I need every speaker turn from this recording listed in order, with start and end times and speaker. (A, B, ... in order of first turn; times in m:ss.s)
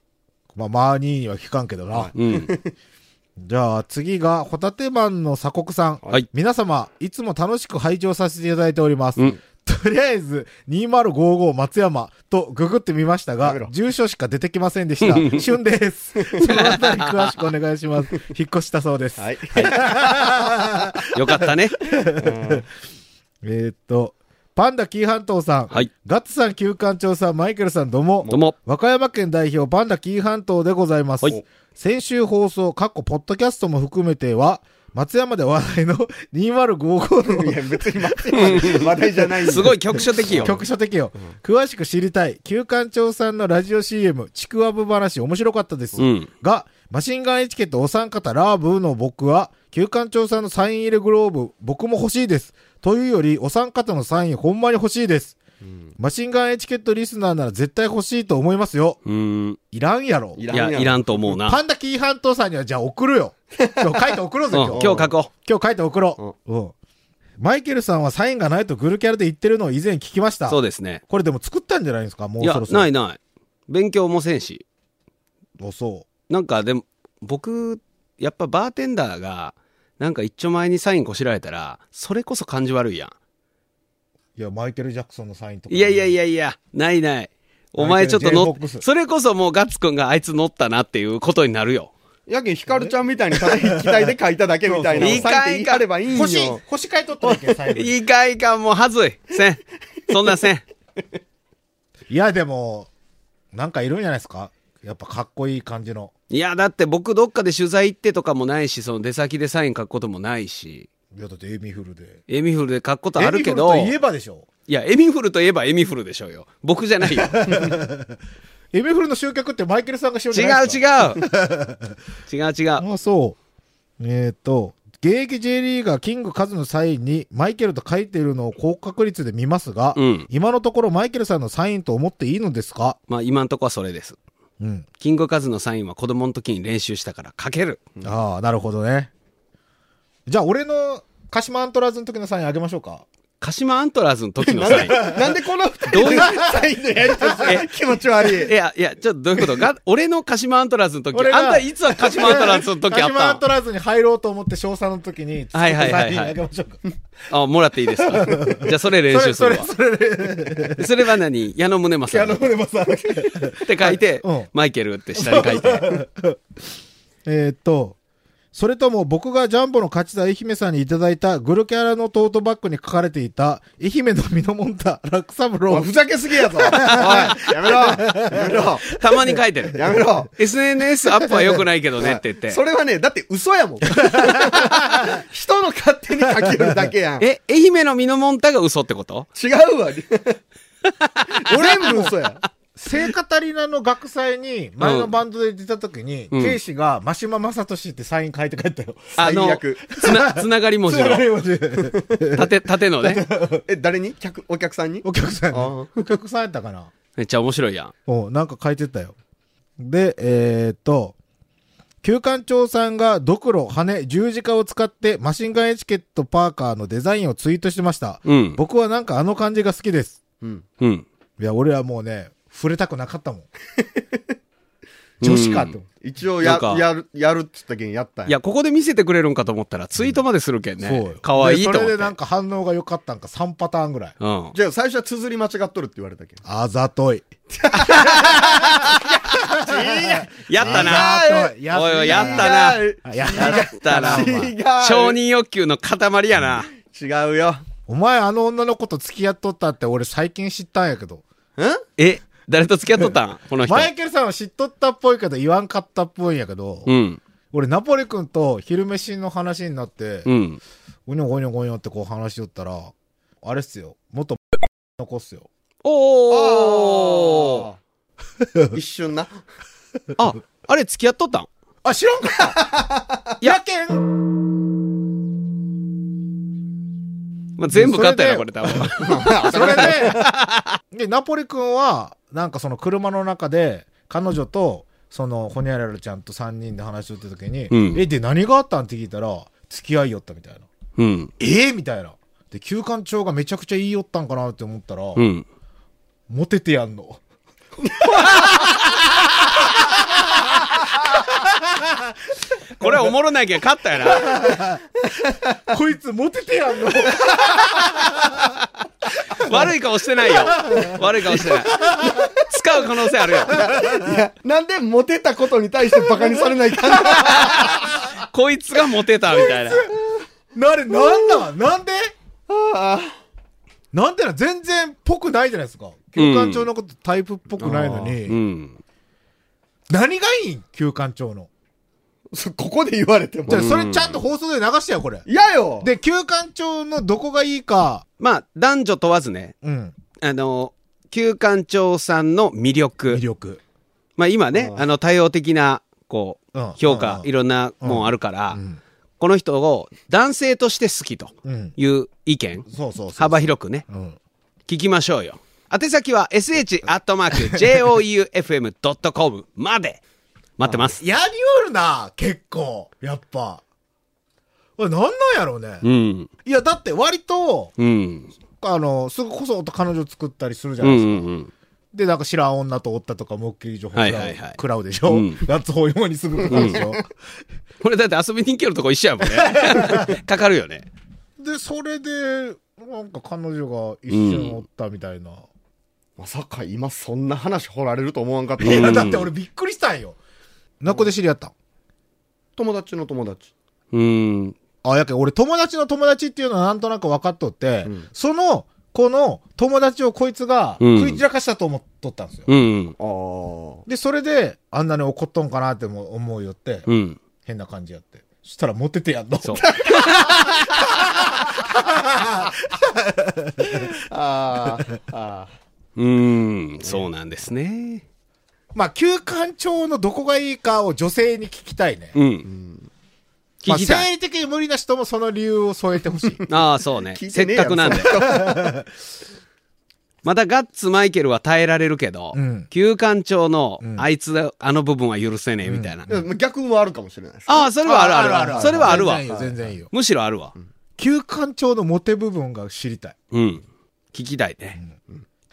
0:00.5-0:02.1 A
0:01.9-0:02.7 B
0:02.2-0:02.5 C
0:03.4-0:21.0 A
0:13.4-0:13.7 B
0:15.0-0:15.4 C
0:16.4-0:17.3 C
0:19.2-0:21.4 B
0:21.1-0:21.8 C
0:21.8-0:22.6 A
0:22.1-0:22.7 B
0:23.4-0:39.5 A
0:28.3-0:28.6 C
0:37.2-0:40.6 B
0:38.4-0:38.9 C
0:39.4-0:40.6 C
0:40.4-0:55.4 A
0:46.0-0:46.3 C
0:55.6-0:55.9 B
0:56.0-0:59.0 A
0:59.0-0:59.6 C
0:59.7-1:00.4 A
1:00.4-1:01.4 B
1:00.5-1:01.6 C
1:01.4-1:06.7 A
1:03.6-1:04.1 B
1:04.5-1:05.3 C
1:04.7-1:05.1 B
1:07.4-1:12.9 A
1:10.5-1:11.0 C
1:12.4-1:14.6 C
1:15.6-1:16.1 A
1:16.3-1:23.1 C
1:24.4-1:26.2 A
1:25.7-1:31.9 C
1:27.8-1:28.8 A
1:32.3-1:36.6 B
1:33.5-1:34.1 A
1:34.7-1:35.3 A
1:35.0-1:35.8 C
1:36.1-1:38.0 A
1:37.2-1:37.5 B
1:37.7-1:40.6 C
1:42.1-1:42.9 A
1:43.5-1:46.1 A
1:46.3-1:50.9 C
1:51.1-1:52.2 A
1:52.3-1:53.9 C
1:53.2-1:54.5 A
1:54.7-1:57.4 C
1:57.1-1:58.2 A
1:58.7-2:02.0 A
2:00.3-2:01.2 C
2:02.3-2:02.8 C
2:02.8-2:03.4 A
2:04.0-2:13.0 A
2:10.0-2:10.3 C
2:13.1-2:14.2 C
2:14.6-2:14.9 A
2:15.0-2:17.9 C
2:18.0-2:19.1 A
2:20.3-2:23.0 A
2:23.4-2:25.2 C
2:24.4-2:28.5 B
2:24.7-2:25.4 A
2:25.9-2:26.4 C
2:26.0-2:27.6 A
2:27.4-2:27.7 C
2:28.3-2:33.4 C
2:31.1-2:36.8 A
2:35.5-2:36.4 C
2:37.3-2:39.7 C
2:38.1-2:41.0 A
2:40.7-2:42.5 C
2:42.1-2:44.5 A
2:43.6-2:46.0 C
2:45.2-2:46.4 A
2:47.2-2:48.0 A
2:48.5-2:55.9 A
2:55.7-2:58.9 B
2:56.6-2:59.4 A
2:56.7-2:57.5 C
2:58.9-2:59.8 C
2:59.7-3:00.3 B
3:00.3-3:02.6 C
3:02.0-3:07.3 B
3:04.0-3:05.2 A
3:06.3-3:06.8 A
3:07.2-3:09.3 C
3:09.4-3:10.4 B
3:11.0-3:11.5 C
3:11.3-3:12.4 B
3:11.5-3:12.2 A
3:12.8-3:19.2 A
3:14.8-3:15.1 C
3:16.3-3:16.6 C
3:19.2-3:19.9 B
3:19.2-3:21.3 C
3:19.9-3:23.7 A
3:21.8-3:22.3 B
3:22.3-3:23.2 C
3:23.7-3:26.1 B
3:25.0-3:26.9 A
3:27.2-3:27.9 C
3:28.1-3:29.1 A
3:29.8-3:31.2 A
3:32.0-3:40.2 A
3:38.2-3:38.6 C
3:40.8-3:41.0 C
3:41.4-3:43.5 A
3:43.8-3:44.2 B
3:45.2-3:45.8 C
3:45.2-3:45.9 A
3:46.0-3:48.4 B
3:46.4-3:46.8 C
3:48.3-3:52.1 C
3:50.8-3:54.2 A
3:54.2-3:54.6 C
3:54.5-3:56.4 B
3:56.4-3:57.3 A
3:57.6-3:58.4 B
3:57.8-3:59.2 C
3:58.0-4:04.5 A
3:59.0-4:05.2 B
4:00.5-4:06.7 C
4:06.7-4:07.6 B
4:07.9-4:11.2 A
4:11.6-4:11.8 B
4:12.0-4:13.9 C
4:13.6-4:16.9 A
4:16.9-4:17.2 C
4:17.5-4:20.3 A
4:20.2-4:20.6 C
4:21.1-4:25.5 A
4:25.8-4:27.7 C
4:26.3-4:27.8 B
4:28.7-4:29.4 B
4:30.2-4:31.5 C
4:31.8-4:32.8 A
4:32.6-4:33.2 B
4:33.4-4:34.2 A
4:37.6-4:40.8 C
4:37.7-4:38.9 A
4:39.0-4:40.3 B
4:39.4-4:40.3 A
4:40.9-4:50.7 A
4:47.7-4:48.0 C
4:51.0-4:51.3 C
4:51.4-4:55.2 A
4:55.2-4:55.4 C
4:56.3-4:57.2 A
4:57.8-4:58.6 B
4:58.2-5:02.2 A
4:58.3-4:58.7 C
5:02.8-5:04.4 C
5:02.8-5:03.1 A
5:04.0-5:04.8 A
5:05.0-5:05.6 B
5:05.7-5:08.5 A
5:07.0-5:07.6 B
5:09.3-5:13.7 C
5:10.2-5:12.3 A
5:12.0-5:12.3 B
5:13.4-5:17.8 B
5:13.5-5:14.2 A
5:16.0-5:18.1 A
5:17.1-5:19.9 C
5:19.5-5:19.9 A
5:19.8-5:20.2 B
5:20.5-5:22.1 A
5:21.0-5:21.4 B
5:22.5-5:23.2 B
5:23.9-5:28.4 A
5:26.2-5:26.7 C
5:27.6-5:28.2 B
5:28.3-5:28.8 C
5:29.9-5:31.5 A
5:32.3-5:33.7 B
5:33.5-5:35.3 A
5:33.5-5:34.2 C
5:35.3-5:35.9 B
5:35.8-5:38.0 A
5:38.2-5:39.5 C
5:39.6-5:40.0 A
5:40.2-5:43.2 C
5:43.1-5:43.6 A
5:44.2-5:48.6 C
5:44.5-5:44.8 B
5:46.5-5:47.3 A
5:47.8-5:48.8 A
5:49.2-5:53.8 C
5:51.4-5:51.8 A
5:52.7-5:54.2 A
5:54.7-6:00.0 C
5:57.5-5:57.8 A
6:00.6-6:01.0 C
6:00.6-6:00.9 B
6:01.0-6:03.6 A
6:04.8-6:05.8 A
6:05.8-6:06.3 C
6:06.4-6:07.7 A
6:07.8-6:08.3 C
6:08.6-6:11.3 A
6:10.8-6:11.5 C
6:11.9-6:17.0 A
6:13.9-6:15.4 C
6:16.4-6:17.0 B
6:16.5-6:16.8 C
6:17.8-6:20.9 C
6:19.2-6:20.2 A
6:21.4-6:25.5 A
6:24.1-6:24.6 C
6:26.2-6:29.1 B
6:28.6-6:30.2 A
6:28.6-6:29.3 C
6:30.8-6:31.5 A
6:32.6-6:33.5 B
6:33.9-6:34.6 C
6:34.8-6:42.5 A
6:40.8-6:41.2 C
6:42.5-6:43.0 C
6:43.0-6:43.8 B
6:43.9-6:46.9 A
6:46.9-6:47.2 C
6:47.4-6:53.8 A
6:49.4-6:50.5 C
6:49.6-6:50.2 B
6:53.7-6:55.5 B
6:56.0-6:58.0 C
6:58.7-7:02.2 A
7:02.2-7:02.5 C
7:02.5-7:02.9 B
7:03.6-7:04.1 C
7:03.7-7:06.4 A
7:06.5-7:08.2 C
7:07.1-7:08.8 B
7:08.2-7:08.8 A
7:10.2-7:16.1 C
7:12.3-7:12.7 A
7:13.8-7:14.1 A
7:15.6-7:16.2 A
7:16.1-7:17.7 B
7:17.5-7:19.3 C
7:17.8-7:19.9 A
7:18.3-7:19.6 B
7:19.9-7:20.5 C
7:21.0-7:23.2 A
7:23.3-7:24.8 C